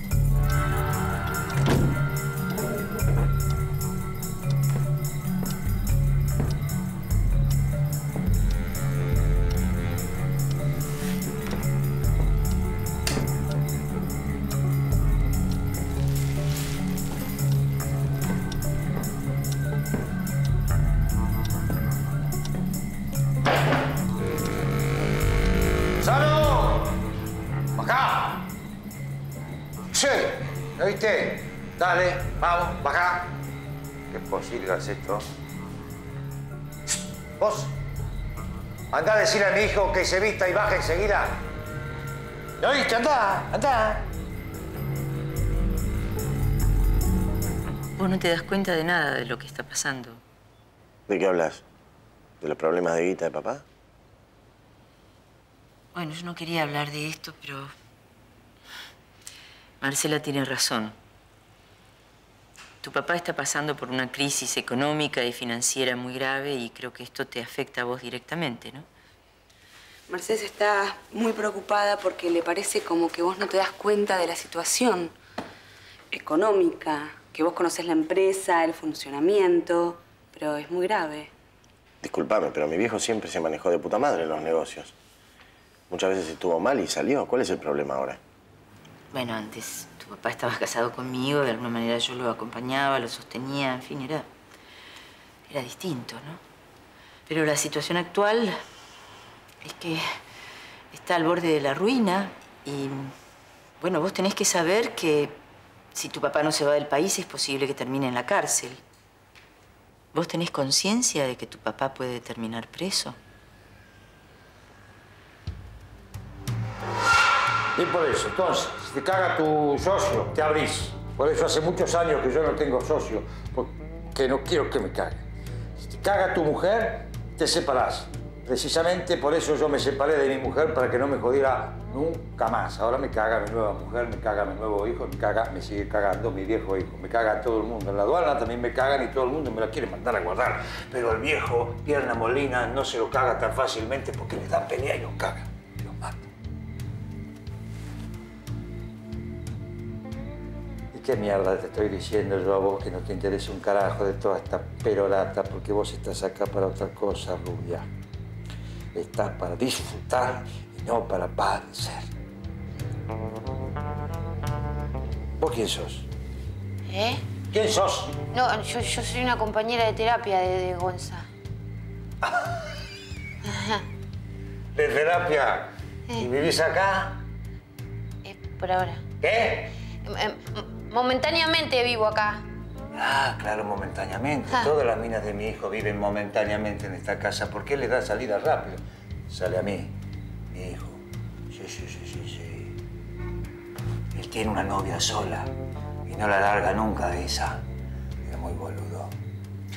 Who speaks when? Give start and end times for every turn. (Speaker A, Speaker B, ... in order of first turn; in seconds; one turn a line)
Speaker A: 26.0-26.9
Speaker A: 27.8-28.4
Speaker A: 29.9-33.3
Speaker A: 34.1-35.2
Speaker A: 37.4-37.7
Speaker A: 38.9-41.4
Speaker A: 42.6-44.0
Speaker B: 48.0-50.2
Speaker C: 51.1-51.6
Speaker C: 52.4-53.6
Speaker B: 55.9-57.7
Speaker B: 59.8-61.0
Speaker B: 62.8-68.9
Speaker D: 70.1-75.1
Speaker D: 76.1-81.3
Speaker C: 82.0-84.9
Speaker C: 85.9-88.2
Speaker B: 89.1-94.3
Speaker B: 95.5-96.4
Speaker B: 97.3-98.6
Speaker B: 99.6-100.0
Speaker B: 100.9-103.1
Speaker B: 103.8-105.4
Speaker B: 105.9-108.8
Speaker B: 110.1-113.2
Speaker A: 117.7-125.2
Speaker A: 125.8-146.3
Speaker A: 150.9-157.9
Speaker A: 158.9-162.1
Speaker A: 165.4-166.1
Speaker E: 166.9-167.2
Speaker A: 167.5-168.2
Speaker E: 168.3-171.3
Speaker A: 172.2-172.6
Speaker E: 173.4-173.9
Speaker A: 174.7-177.2
Speaker E: 178.2-179.0
Speaker A: 179.2-179.7
Speaker E: 180.0-182.4
Speaker A: 182.9-189.9
Speaker A: 190.5-192.7
Speaker A: 194.1-195.5
Speaker A: 196.1-197.6
Speaker A: 198.2-199.1